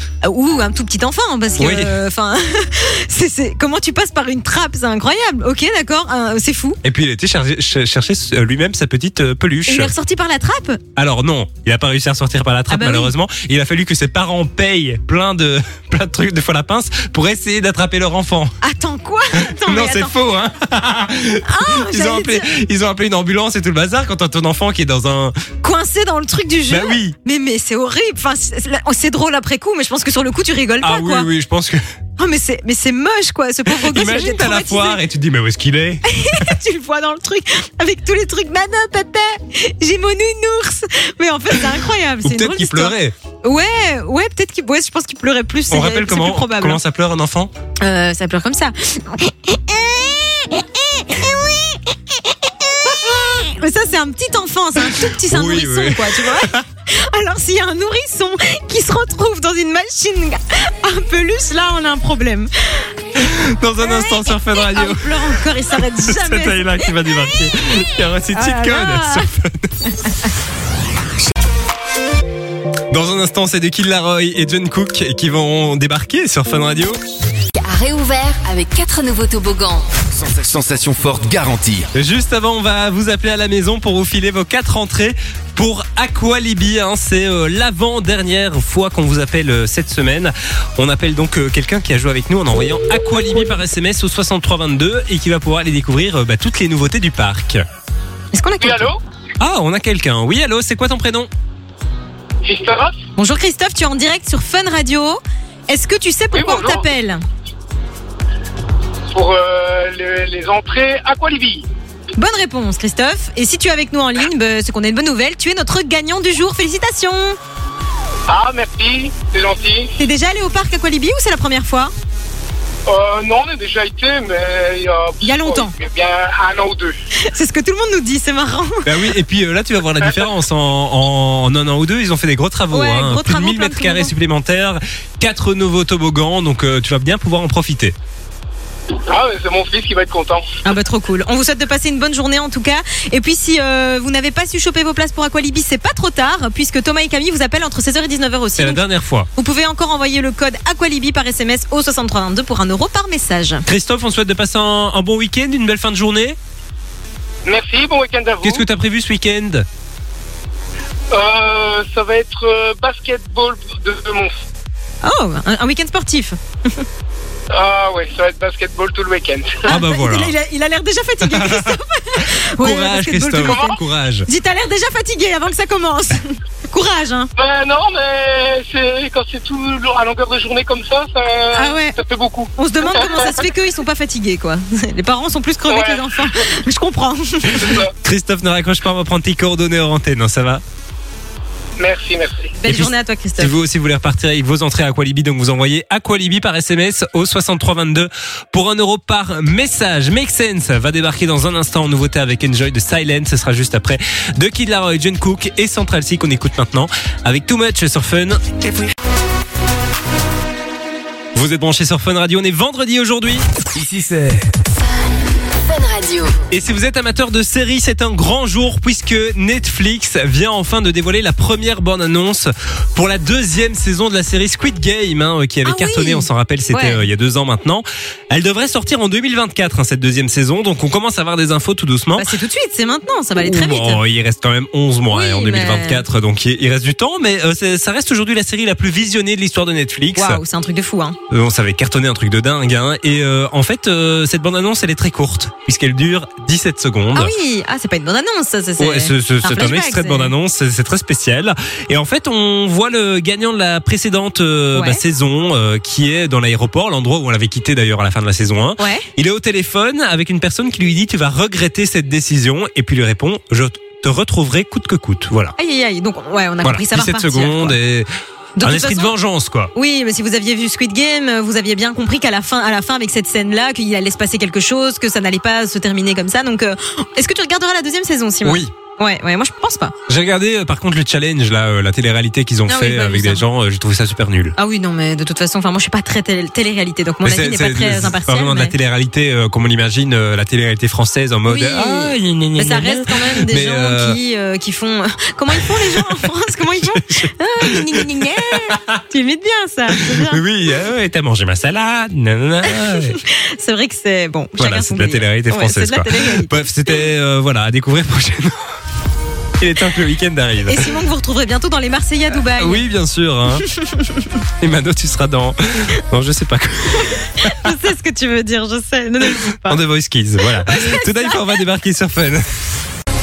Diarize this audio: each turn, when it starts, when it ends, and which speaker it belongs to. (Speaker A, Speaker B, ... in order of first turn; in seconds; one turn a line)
Speaker A: 0.2-6.8
Speaker B: 1.6-2.0
Speaker B: 6.8-9.9
Speaker A: 9.7-10.8
Speaker B: 11.0-18.6
Speaker A: 12.7-13.1
Speaker A: 18.6-20.1
Speaker B: 19.6-25.4
Speaker A: 21.4-22.4
Speaker A: 25.6-31.3
Speaker B: 26.7-27.2
Speaker B: 30.8-31.8
Speaker A: 32.2-35.0
Speaker B: 33.7-36.5
Speaker A: 36.1-46.8
Speaker B: 42.2-43.1
Speaker B: 45.7-47.5
Speaker A: 47.8-52.0
Speaker A: 52.5-62.5
Speaker B: 55.0-56.6
Speaker B: 63.2-69.7
Speaker A: 63.8-67.5
Speaker A: 68.3-69.3
Speaker B: 72.9-77.0
Speaker C: 77.5-79.9
Speaker D: 80.1-81.9
Speaker B: 81.9-97.6
Speaker A: 98.3-98.9
Speaker E: 98.6-99.0
Speaker B: 99.4-101.3
Speaker E: 102.4-103.0
Speaker A: 103.2-107.2
Speaker E: 106.3-106.8
Speaker E: 109.1-111.7
Speaker A: 112.2-117.4
Speaker E: 118.3-120.0
Speaker A: 120.0-121.9
Speaker E: 122.9-127.0
Speaker A: 125.2-125.7
Speaker A: 127.2-128.9
Speaker B: 128.8-137.9
Speaker A: 132.7-134.1
Speaker E: 139.1-140.5
Speaker A: 140.7-148.8
Speaker B: 148.6-149.3
Speaker A: 149.3-153.6
Speaker B: 153.7-156.4
Speaker E: 157.5-158.7
Speaker B: 158.4-159.7
Speaker E: 161.1-164.4
Speaker A: 165.0-166.8
Speaker E: 167.5-169.7
Speaker A: 169.7-177.3
Speaker B: 169.7-170.3
Speaker B: 171.2-174.3
Speaker E: 173.4-173.7
Speaker E: 177.4-183.4
Speaker A: 181.5-182.0
Speaker A: 182.6-187.8
Speaker E: 185.7-186.1
Speaker E: 187.6-187.9
Speaker B: 188.0-190.6
Speaker E: 191.8-192.6
Speaker A: 192.6-193.6
Speaker B: 192.7-208.4
Speaker B: 211.3-213.5
Speaker D: 213.7-214.5
Speaker C: 215.4-216.4
Speaker B: 216.5-232.3
Speaker A: 225.7-227.0
Speaker A: 232.2-234.0
Speaker B: 233.4-240.4
Speaker A: 235.1-236.0
Speaker A: 240.2-241.2
Speaker B: 241.3-247.3
Speaker A: 247.2-250.3
Speaker B: 248.8-265.6
Speaker A: 254.8-255.0
Speaker A: 258.8-259.1
Speaker A: 265.6-267.8
Speaker B: 266.6-268.1
Speaker A: 268.6-269.1
Speaker B: 268.6-269.7
Speaker A: 269.7-279.9
Speaker B: 278.4-278.7
Speaker B: 280.1-284.6
Speaker A: 282.7-283.4
Speaker A: 284.6-288.7
Speaker B: 287.2-294.2
Speaker A: 291.5-300.4
Speaker B: 296.9-298.0
Speaker B: 298.6-299.0
Speaker B: 300.2-303.2
Speaker A: 302.7-306.6
Speaker B: 304.6-308.7
Speaker B: 309.6-311.0
Speaker A: 310.6-312.9
Speaker B: 312.6-313.7
Speaker A: 313.6-314.4
Speaker B: 314.6-317.7
Speaker A: 317.4-319.8
Speaker B: 319.5-322.6
Speaker A: 320.4-321.6